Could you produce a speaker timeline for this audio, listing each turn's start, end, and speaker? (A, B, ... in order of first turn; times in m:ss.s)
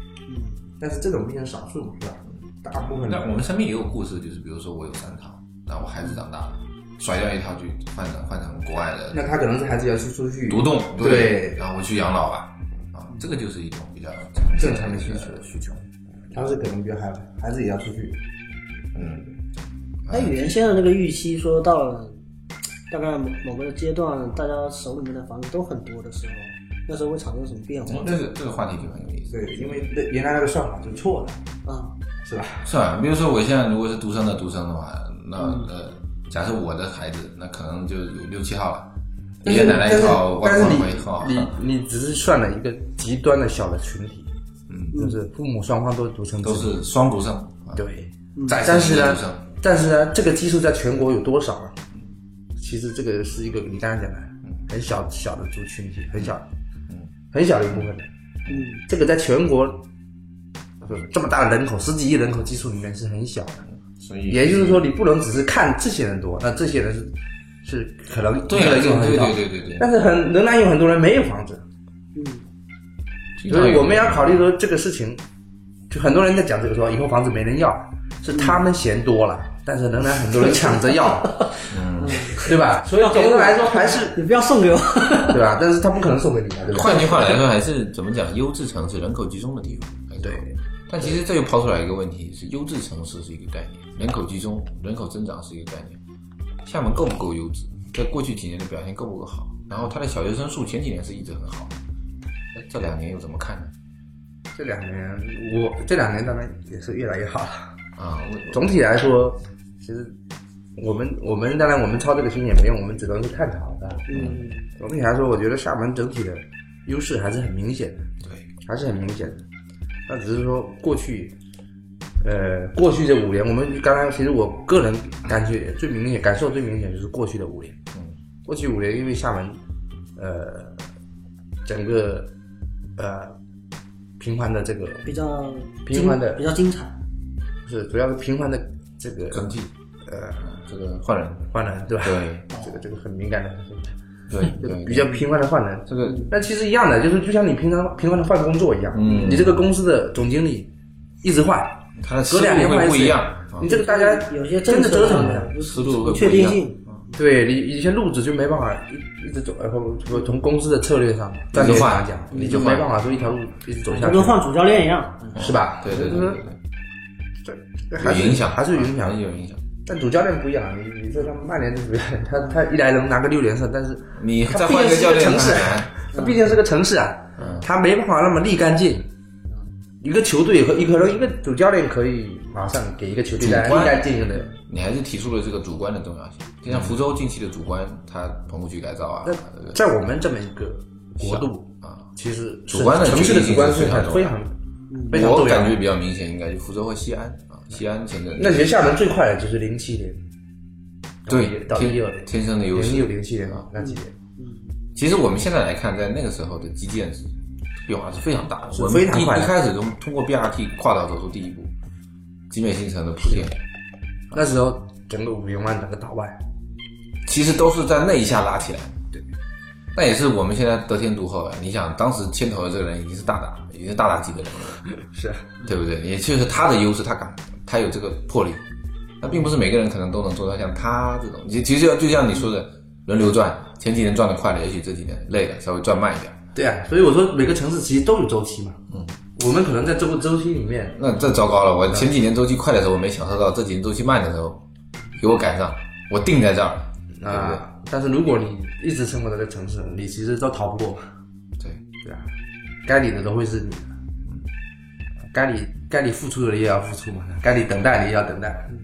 0:00.3-0:00.6 A
0:00.8-0:03.4 B
0:02.9-0:09.2 C
0:09.1-0:11.6 B
0:10.5-0:15.8 C
0:14.5-0:15.8 B
0:16.3-0:18.2 B
0:19.0-0:19.4 C
0:20.1-0:20.3 C
0:20.1-0:22.2 A
0:22.9-0:28.2 A
0:27.9-0:29.9 C
0:29.3-0:31.4 B
0:31.6-0:31.9 A
0:32.2-0:32.7 B
0:32.6-0:38.9 C
0:35.4-0:35.7 A
0:39.4-0:44.3 B
0:39.4-0:41.5 C
0:44.7-0:45.0 C
0:44.9-0:45.2 A
0:44.9-0:46.8 B
0:46.4-0:47.8 C
0:47.8-0:51.8 B
0:48.4-0:48.6 A
0:48.5-0:49.5 C
0:52.6-0:56.4 B
0:57.3-0:58.1 B
0:58.5-0:58.8 A
0:58.9-0:59.8 B
1:00.8-1:03.6 B
1:03.8-1:04.9 C
1:04.3-1:11.6 B
1:08.5-1:09.9 C
1:12.2-1:12.4 A
1:13.4-1:14.4 C
1:13.5-1:15.2 B
1:15.9-1:21.4 B
1:18.3-1:18.6 A
1:20.6-1:25.4 A
1:21.7-1:22.4 C
1:22.4-1:24.2 B
1:25.3-1:27.2 B
1:26.7-1:36.0 C
1:30.2-1:31.2 B
1:36.7-1:41.8 C
1:42.6-1:43.7 C
1:44.5-1:47.7 B
1:48.0-1:48.7 C
1:48.5-1:50.2 B
1:50.8-1:54.2 B
1:54.1-1:54.7 A
1:54.1-1:54.5 C
1:54.8-1:58.1 B
1:58.2-1:58.5 C
1:58.6-1:59.5 B
2:00.1-2:01.4 B
2:02.2-2:07.8 B
2:08.5-2:09.6 B
2:10.2-2:10.8 B
2:11.6-2:12.3 B
2:13.0-2:13.4 B
2:14.2-2:15.1 B
2:15.0-2:17.0 A
2:15.8-2:16.4 B
2:17.6-2:19.4 B
2:19.3-2:19.7 C
2:20.0-2:20.5 B
2:20.4-2:22.5 C
2:21.5-2:24.0 B
2:22.5-2:22.8 A
2:24.3-2:25.3 C
2:24.5-2:30.7 B
2:25.9-2:26.3 C
2:26.0-2:26.3 A
2:28.9-2:29.6 C
2:31.2-2:35.5 B
2:32.0-2:33.7 C
2:33.6-2:36.8 A
2:35.6-2:37.0 C
2:37.1-2:44.4 B
2:41.5-2:43.0 C
2:42.3-2:42.6 A
2:43.9-2:45.5 A
2:45.4-2:46.4 B
2:45.4-2:46.6 C
2:47.4-2:49.2 B
2:48.0-2:49.6 C
2:49.8-2:59.1 B
2:54.2-2:55.9 C
2:56.1-2:56.5 A
2:57.4-2:57.7 C
3:00.0-3:04.5 B
3:03.4-3:04.1 C
3:04.7-3:09.8 C
3:06.7-3:07.0 B
3:09.2-3:14.5 B
3:11.2-3:12.1 C
3:12.7-3:14.4 C
3:14.9-3:15.2 A
3:15.1-3:15.8 B
3:15.1-3:18.7 C
3:18.4-3:20.2 B
3:21.3-3:24.1 B
3:21.3-3:23.6 C
3:23.8-3:24.8 A
3:25.0-3:31.7 C
3:28.7-3:29.5 B
3:32.5-3:33.6 C
3:34.3-3:36.4 B
3:37.3-3:39.0 C
3:40.0-3:44.9 C
3:45.0-3:45.6 B
3:45.6-3:48.6 C
3:49.2-3:56.4 C
3:56.6-3:58.8 B
3:58.9-3:59.2 C
3:59.4-4:01.2 B
4:01.0-4:04.6 C
4:05.2-4:07.6 C
4:07.2-4:11.0 B
4:12.0-4:12.3 B
4:12.8-4:14.0 B
4:15.3-4:18.7 B